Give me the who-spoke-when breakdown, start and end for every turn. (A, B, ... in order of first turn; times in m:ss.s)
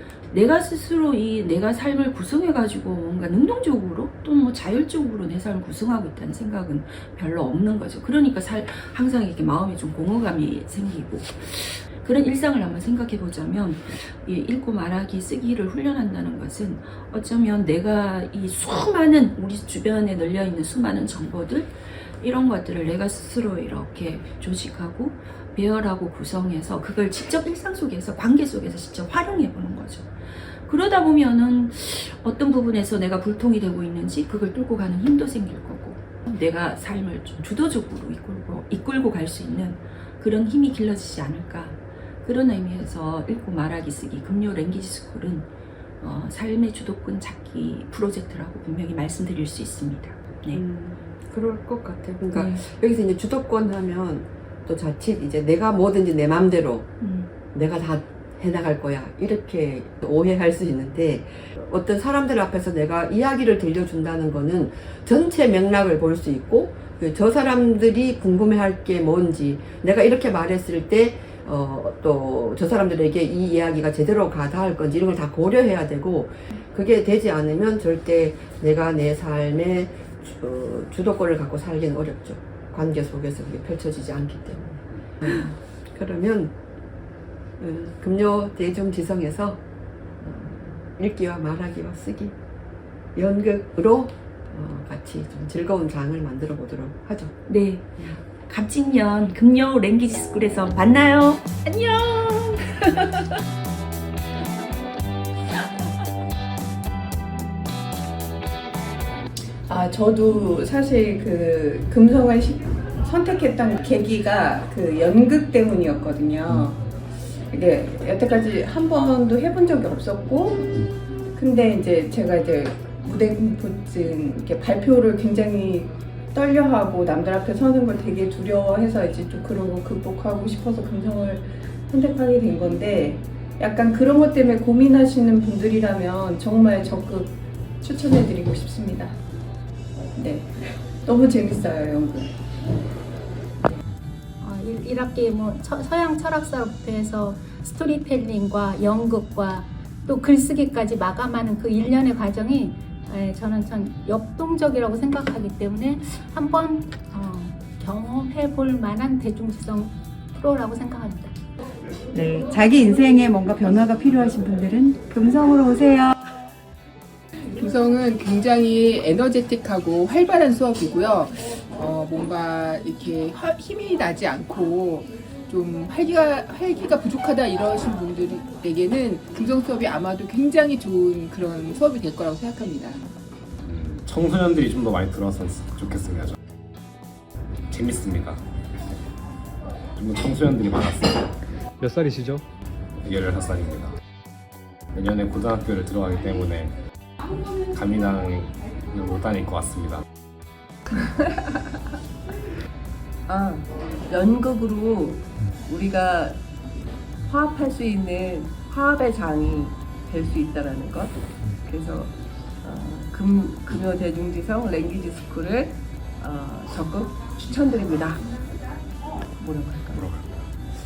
0:00.3-0:45.5 A
0:46.0-0:50.6 A
0:50.5-0:56.9 B
0:52.3-0:52.6 A
0:57.0-0:57.3 A
0:57.5-1:26.6 B
1:27.6-1:29.6 B
1:30.2-1:32.4 B
1:33.2-1:37.4 B
1:37.5-1:43.2 A
1:49.7-1:56.8 C
1:57.5-2:19.2 C
2:20.1-2:22.3 C
2:24.4-2:41.3 D
2:42.1-2:46.2 E
2:47.6-3:03.1 F
3:03.6-3:06.4 G
3:07.7-3:08.4 G
3:10.0-3:11.3 G
3:13.0-3:14.0 G
3:14.9-3:16.8 G
3:17.7-3:20.0 G
3:23.3-3:26.4 H
3:27.3-3:31.1 H
3:31.6-3:38.3 H
3:39.4-3:40.0 H
3:39.9-3:40.3 G